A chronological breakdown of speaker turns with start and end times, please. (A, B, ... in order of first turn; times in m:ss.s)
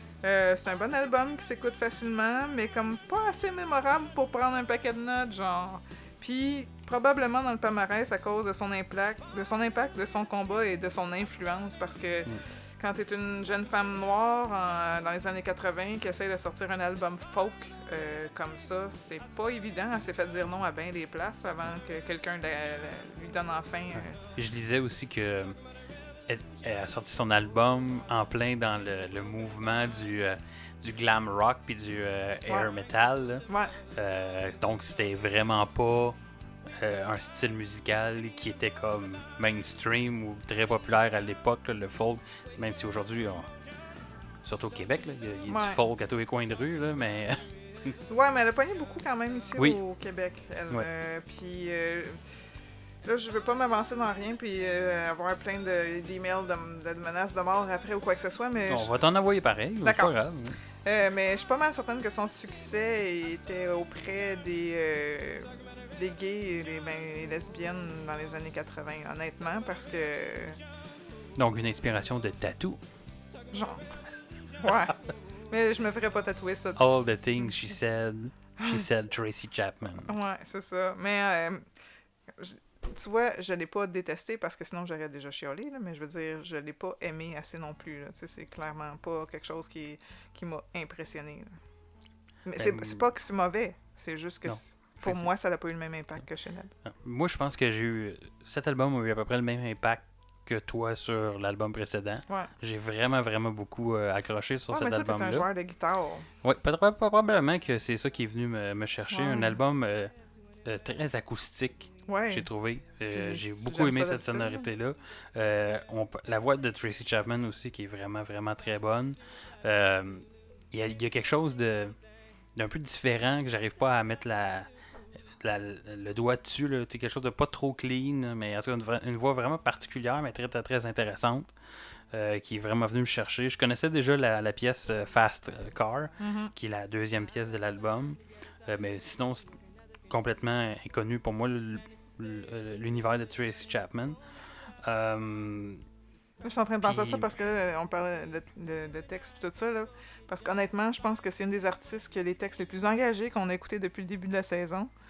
0:00.2-0:24.2 A
0:24.0-0:25.6 B
0:26.3-0:36.2 B
0:33.5-0:33.8 A
0:36.8-0:43.5 B
0:44.4-0:48.0 B
0:45.5-0:45.8 A
0:48.1-0:52.2 A
0:53.0-0:59.0 A
0:58.7-1:00.6 B
0:59.8-1:00.1 A
1:00.8-1:10.6 A
1:11.4-1:12.8 B
1:13.5-1:13.8 A
1:14.6-1:15.0 A
1:15.5-1:17.5 A
1:16.8-1:20.1 B
1:20.1-1:21.7 A
1:22.4-1:31.5 A
1:32.4-1:36.7 A
1:32.6-1:33.0 B
1:34.4-1:35.3 B
1:36.8-1:45.5 B
1:44.7-1:46.3 A
1:46.4-1:50.1 B
1:49.1-1:49.6 A
1:50.6-2:02.0 B
1:52.1-1:52.5 A
1:53.1-1:54.7 A
2:02.6-2:04.7 B
2:05.4-2:11.5 B
2:12.1-2:19.6 B
2:16.2-2:16.5 A
2:20.1-2:24.2 B
2:24.8-2:25.8 B
2:26.4-2:34.9 A
2:26.8-2:27.3 B